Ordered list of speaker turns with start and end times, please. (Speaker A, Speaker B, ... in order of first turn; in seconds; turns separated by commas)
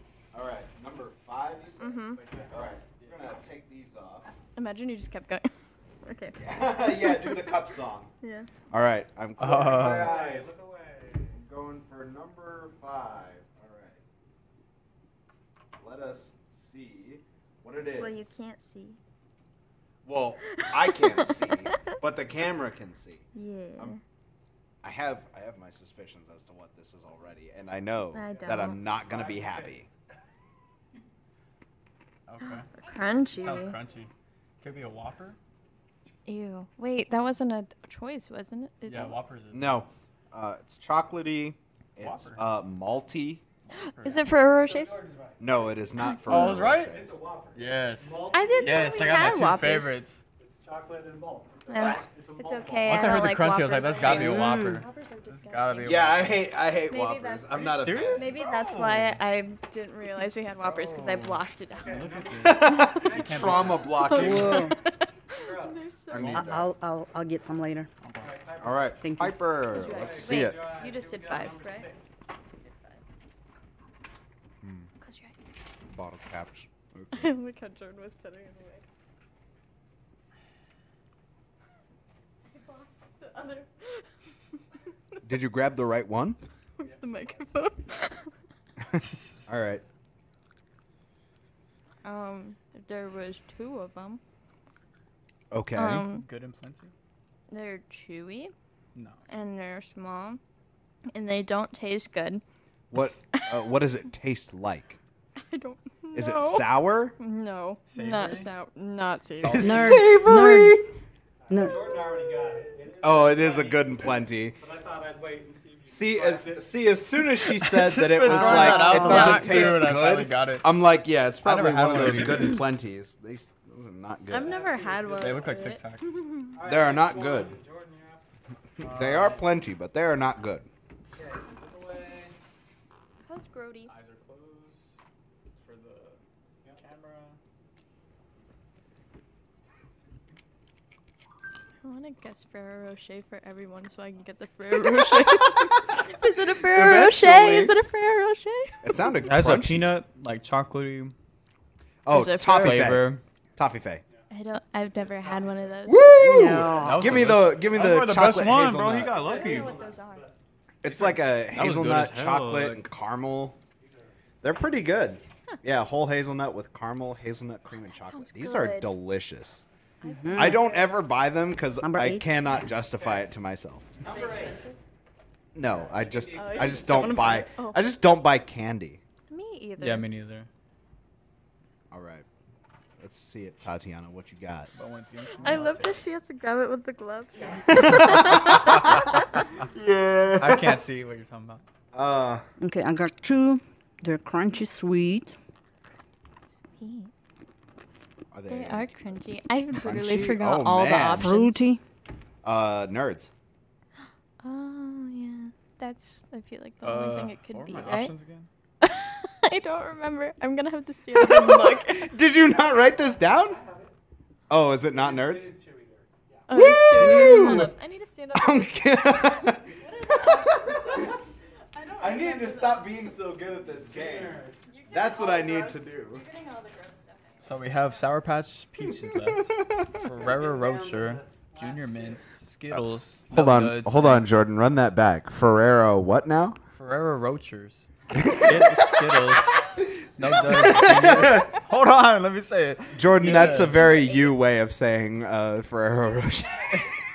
Speaker A: 0.3-4.3, Speaker B: 1.8-2.3, Speaker C: 2.2-2.8, Speaker B: 4.6-7.5, Speaker A: 6.4-8.1, Speaker B: 8.2-8.5, Speaker A: 8.7-10.5, Speaker D: 9.4-10.2, Speaker C: 9.4-11.4, Speaker A: 11.3-14.0, Speaker A: 15.8-18.3, Speaker B: 17.9-19.0, Speaker A: 20.1-24.0, Speaker B: 20.6-21.6, Speaker B: 23.3-24.0, Speaker A: 24.8-29.9, Speaker B: 28.1-28.9, Speaker C: 28.3-29.9, Speaker D: 32.3-35.4, Speaker B: 32.4-33.8, Speaker B: 36.3-39.2, Speaker D: 38.9-39.9, Speaker A: 39.5-43.4, Speaker D: 42.0-42.5, Speaker D: 43.6-44.3, Speaker B: 43.8-45.1, Speaker C: 44.5-45.7, Speaker A: 45.4-47.2, Speaker D: 46.3-47.0, Speaker C: 46.7-49.6, Speaker D: 47.5-50.2, Speaker B: 48.3-50.0, Speaker C: 50.4-54.1, Speaker B: 51.7-56.1, Speaker D: 52.9-56.5, Speaker E: 54.1-54.9, Speaker A: 55.8-58.4, Speaker B: 56.9-62.2, Speaker D: 57.6-59.2, Speaker D: 60.6-64.5, Speaker C: 61.7-64.1, Speaker A: 62.5-64.7, Speaker B: 62.7-63.0, Speaker B: 64.0-66.5, Speaker E: 64.2-64.8, Speaker C: 65.4-65.9, Speaker A: 66.1-66.7, Speaker E: 66.3-67.9, Speaker D: 68.0-68.3, Speaker C: 68.2-68.9, Speaker A: 68.6-70.6, Speaker E: 69.0-69.5, Speaker B: 69.7-71.9, Speaker C: 69.7-72.2, Speaker A: 74.6-74.9, Speaker B: 75.0-75.4, Speaker A: 75.9-77.3, Speaker B: 77.1-78.9, Speaker B: 82.5-84.1, Speaker A: 85.2-86.4, Speaker B: 86.8-88.3, Speaker C: 86.8-87.5, Speaker A: 88.9-89.8, Speaker D: 89.0-89.5, Speaker B: 92.0-94.2, Speaker A: 95.5-96.1, Speaker B: 95.8-96.3, Speaker D: 96.0-96.9, Speaker B: 97.5-98.5, Speaker D: 98.9-99.2, Speaker B: 99.3-100.4, Speaker B: 101.1-102.4, Speaker A: 102.9-105.0, Speaker B: 105.4-110.0, Speaker A: 106.1-107.2, Speaker D: 107.9-108.5, Speaker D: 109.4-110.1, Speaker A: 109.4-110.9, Speaker E: 109.6-110.9, Speaker C: 111.4-116.7, Speaker E: 111.5-112.0, Speaker A: 113.0-114.6, Speaker A: 115.9-124.5, Speaker D: 117.4-120.8, Speaker B: 118.2-119.9, Speaker D: 121.4-122.6, Speaker B: 124.3-126.5, Speaker C: 124.3-125.6, Speaker D: 125.2-126.2, Speaker C: 126.5-128.3, Speaker A: 126.6-127.6, Speaker D: 128.8-129.5, Speaker A: 128.8-130.7, Speaker C: 131.1-132.4, Speaker B: 133.3-133.9, Speaker D: 133.9-135.0, Speaker D: 135.6-136.2, Speaker D: 136.8-137.4, Speaker B: 141.8-149.1, Speaker A: 145.1-145.7, Speaker A: 146.6-147.7, Speaker A: 148.8-149.9, Speaker D: 149.2-151.2, Speaker A: 152.1-154.0, Speaker B: 152.1-153.0, Speaker D: 152.6-153.2, Speaker B: 154.3-156.2, Speaker C: 155.0-156.0, Speaker A: 155.9-159.2, Speaker E: 156.1-157.2, Speaker D: 156.6-159.8, Speaker C: 158.8-160.4, Speaker B: 159.1-160.3, Speaker A: 160.8-163.6, Speaker D: 160.8-162.9, Speaker C: 163.8-164.2, Speaker A: 164.4-169.7, Speaker B: 167.8-168.9, Speaker B: 170.0-170.8, Speaker E: 170.1-170.7, Speaker A: 170.3-173.9, Speaker E: 171.8-172.3, Speaker C: 173.0-173.3, Speaker C: 174.0-174.7, Speaker B: 174.1-174.7, Speaker A: 175.6-179.0, Speaker C: 175.7-177.5, Speaker B: 176.3-177.8, Speaker B: 179.3-180.1, Speaker D: 179.8-180.5, Speaker A: 181.9-182.3, Speaker A: 183.0-184.7, Speaker D: 184.7-186.0, Speaker B: 185.4-189.0, Speaker A: 187.7-188.9, Speaker A: 189.6-190.8, Speaker D: 190.4-191.7, Speaker A: 191.9-192.4, Speaker E: 192.6-195.4, Speaker B: 196.8-197.1, Speaker A: 198.3-198.9, Speaker B: 198.5-201.6, Speaker A: 199.7-201.3, Speaker E: 201.0-201.8, Speaker A: 202.4-203.3, Speaker B: 204.4-208.1, Speaker D: 206.8-208.5, Speaker B: 208.8-212.2, Speaker A: 211.1-213.6, Speaker C: 212.5-213.9, Speaker A: 214.5-215.5, Speaker C: 214.9-216.5, Speaker B: 216.5-221.2, Speaker A: 216.5-217.7, Speaker E: 216.9-217.6, Speaker A: 218.3-220.5, Speaker C: 219.9-221.1, Speaker B: 221.7-222.9, Speaker A: 222.0-226.2, Speaker C: 223.7-224.7, Speaker B: 224.7-228.1, Speaker D: 227.4-234.3, Speaker A: 229.2-230.0, Speaker C: 230.2-232.3, Speaker A: 232.7-236.6, Speaker D: 236.8-243.9, Speaker A: 238.1-238.9, Speaker A: 240.2-241.6, Speaker A: 242.9-246.9, Speaker B: 243.3-244.4